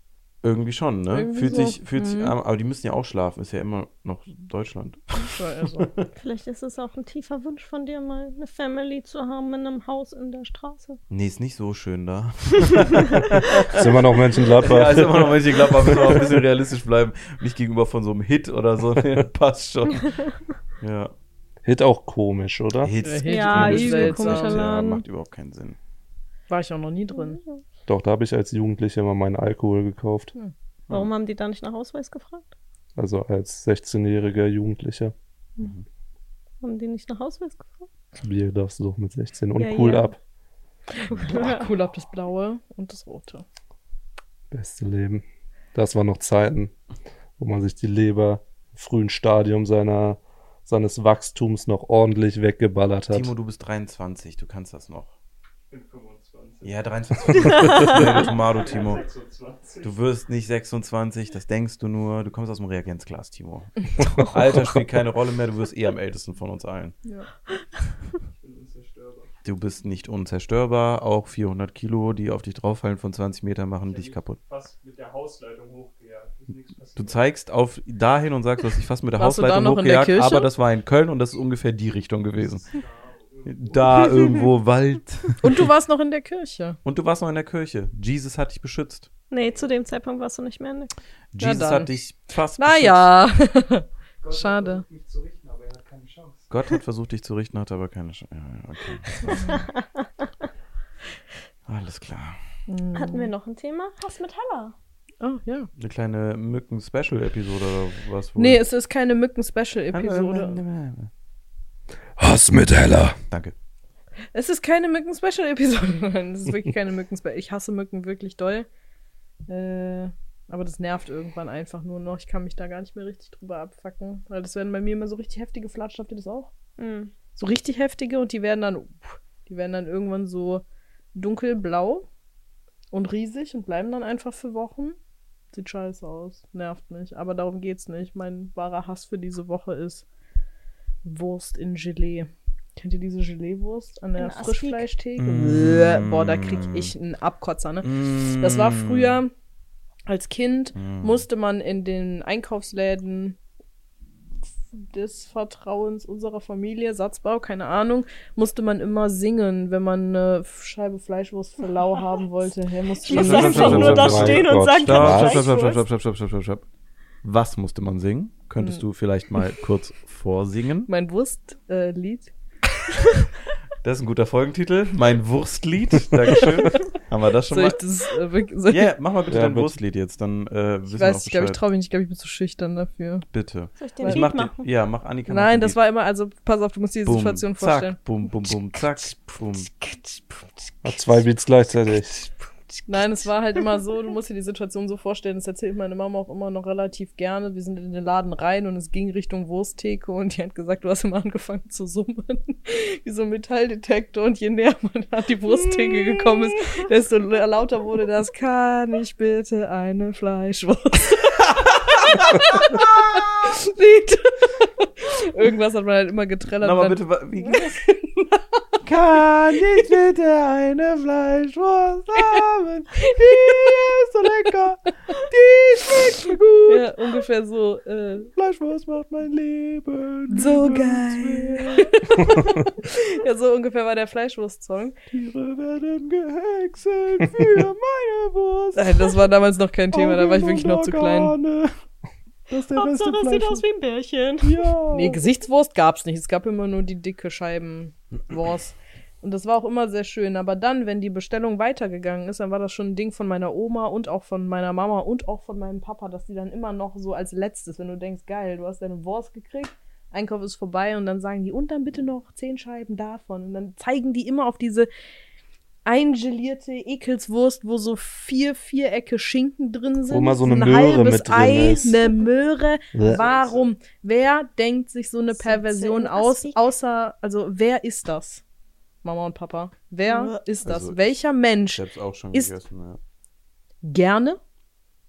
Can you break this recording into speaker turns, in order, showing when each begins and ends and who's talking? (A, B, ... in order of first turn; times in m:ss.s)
0:00.4-0:06.1 A
0:01.1-0:02.3 B
0:05.3-0:05.9 B
0:06.2-0:11.0 C
0:11.1-0:20.3 A
0:13.7-0:16.2 D
0:20.8-0:21.1 A
0:21.6-0:22.9 D
0:22.8-0:25.8 A
0:23.0-0:24.6 B
0:23.3-0:25.0 C
0:26.5-0:27.4 B
0:27.2-0:27.6 C
0:27.9-0:30.3 D
0:30.9-0:32.5 C
0:33.0-0:35.1 D
0:36.6-0:37.9 C
0:38.2-0:40.2 D
0:39.6-0:40.1 C
0:41.0-0:43.5 B
0:41.2-0:41.7 C
0:44.5-0:46.7 D
0:47.4-0:53.3 D
0:53.1-0:55.2 A
0:55.7-1:00.0 E
0:56.6-0:59.0 A
0:57.5-0:58.0 C
0:59.8-1:07.0 A
1:08.2-1:09.4 E
1:09.4-1:14.4 A
1:13.9-1:17.2 E
1:17.0-1:22.7 A
1:19.2-1:20.5 B
1:22.4-1:24.4 E
1:23.5-1:25.5 A
1:25.4-1:26.8 B
1:26.8-1:29.1 A
1:29.3-1:30.9 C
1:31.3-1:33.1 A
1:31.4-1:31.9 B
1:32.6-1:34.8 B
1:34.2-1:36.8 E
1:36.5-1:39.2 A
1:39.2-1:40.1 C
1:39.3-1:39.6 B
1:41.7-1:42.4 A
1:42.7-1:43.3 B
1:43.0-1:44.8 C
1:45.2-1:45.7 B
1:45.8-1:48.6 A
1:48.4-1:50.6 B
1:49.9-1:51.1 A
1:52.2-1:53.2 D
1:54.3-1:58.7 B
1:59.5-2:06.5 B
2:06.8-2:07.1 C
2:07.4-2:10.6 B
2:11.1-2:12.1 B
2:12.9-2:15.0 B
2:15.5-2:20.0 B
2:21.0-2:29.3 B
2:24.2-2:24.9 C
2:25.2-2:26.9 A
2:27.8-2:29.2 A
2:30.1-2:33.4 B
2:30.8-2:31.2 A
2:34.7-2:43.9 B
2:43.0-2:45.8 C
2:43.1-2:46.7 A
2:43.1-2:45.4 D
2:47.2-2:50.9 A
2:48.6-2:48.8 B
2:50.9-2:52.4 B
2:53.8-2:57.9 A
2:57.5-2:58.9 B
2:58.7-3:01.6 A
2:59.3-2:59.7 D
3:00.9-3:03.3 B
3:03.3-3:05.8 A
3:03.8-3:04.7 C
3:04.0-3:04.3 B
3:05.3-3:08.0 B
3:07.0-3:09.7 A
3:09.7-3:10.7 C
3:10.8-3:12.2 D
3:12.2-3:12.8 C
3:12.9-3:38.6 B
3:31.5-3:33.3 A
3:36.6-3:37.8 A
3:38.8-3:46.9 A
3:43.1-3:43.7 B
3:46.7-3:48.3 B
3:48.4-3:52.3 A
3:50.3-3:55.1 B
3:55.1-3:59.1 A
3:58.7-4:01.4 B
3:59.9-4:01.7 A
4:02.5-4:03.6 A
4:02.7-4:04.7 C
4:04.4-4:05.2 A
4:04.9-4:24.9 B
4:25.9-4:38.4 B
4:30.1-4:32.1 D
4:32.9-4:33.2 D
4:35.4-4:36.6 C
4:39.0-4:41.8 B
4:40.1-4:40.4 C
4:40.6-4:41.2 A
4:41.7-4:43.0 A
4:43.8-4:44.4 B